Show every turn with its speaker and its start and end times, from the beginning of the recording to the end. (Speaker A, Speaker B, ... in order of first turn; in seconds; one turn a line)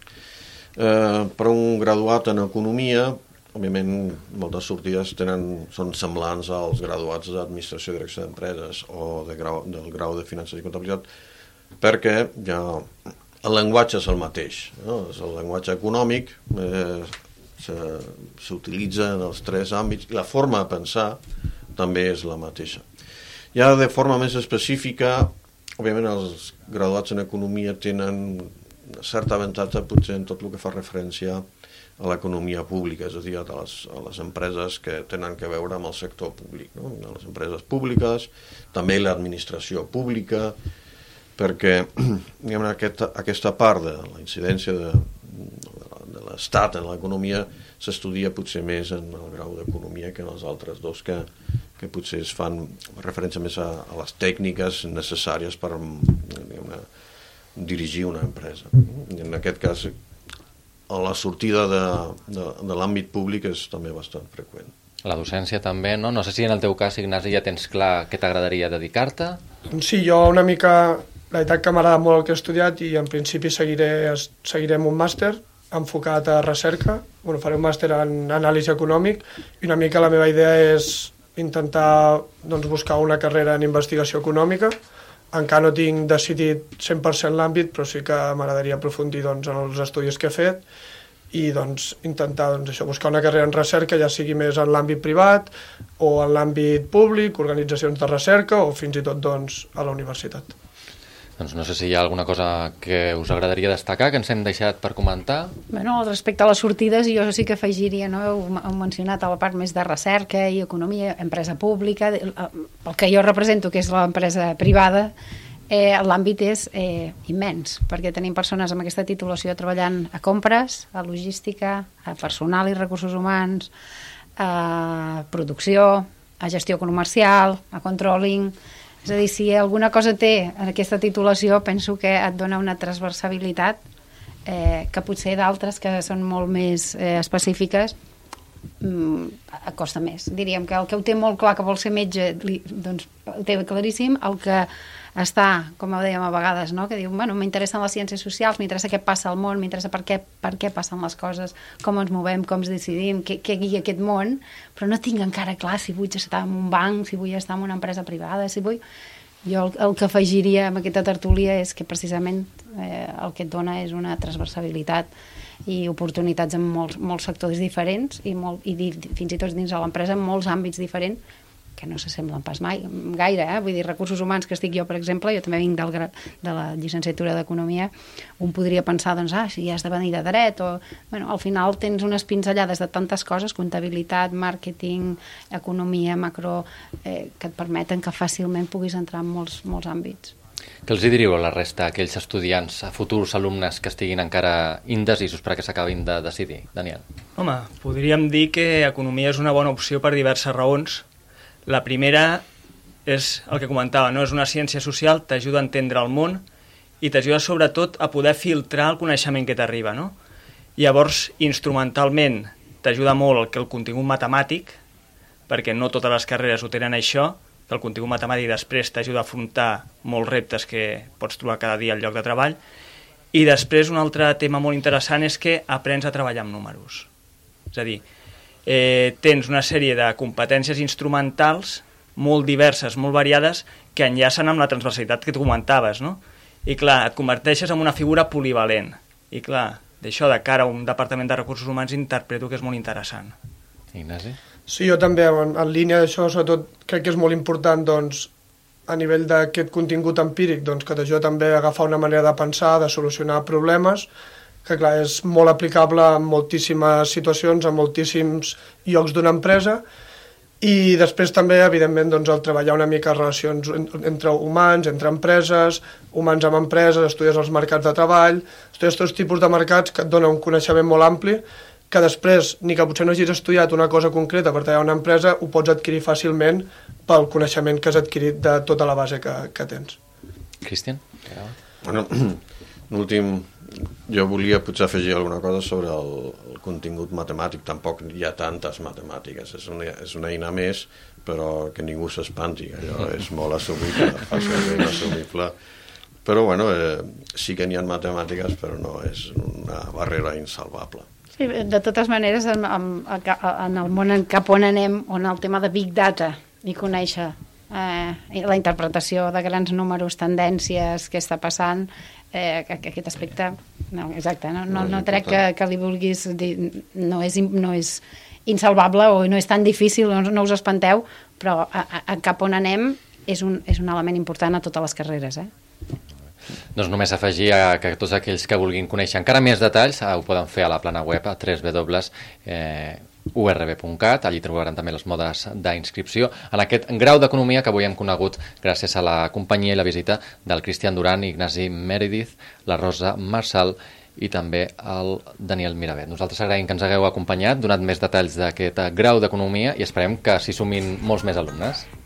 Speaker A: 0.8-11.1
Speaker A: 11.8-21.2
Speaker A: 21.8-22.9
Speaker A: 23.5-31.4
Speaker A: 32.0-40.5
Speaker A: 41.4-51.3
Speaker A: 51.8-56.9
Speaker A: 57.5-59.9
Speaker A: 60.9-64.7
Speaker B: 65.0-69.4
Speaker C: 69.7-84.7
Speaker C: 85.3-90.6
Speaker C: 91.3-100.5
Speaker B: 101.4-105.5
Speaker D: 105.7-115.1
Speaker D: 115.7-123.7
Speaker D: 124.4-133.8
Speaker D: 134.4-137.9
Speaker D: 138.8-158.8
Speaker D: 159.4-165.1
Speaker D: 165.7-171.2
Speaker D: 171.8-190.3
Speaker B: 190.8-197.0
Speaker E: 197.4-201.0
Speaker E: 201.7-202.4
Speaker E: 203.1-206.4
Speaker E: 207.0-210.1
Speaker E: 210.8-214.8
Speaker E: 215.5-222.6
Speaker E: 223.3-227.1
Speaker E: 227.7-228.0
Speaker E: 228.7-243.3
Speaker B: 243.9-244.4
Speaker C: 244.7-248.3
Speaker C: 248.9-254.1
Speaker C: 254.6-259.8
Speaker C: 260.6-280.0
Speaker B: 280.6-281.5
Speaker A: 281.8-295.5
Speaker A: 296.2-301.1
Speaker D: 301.4-325.5
Speaker A: 314.7-315.4
Speaker B: 326.7-351.9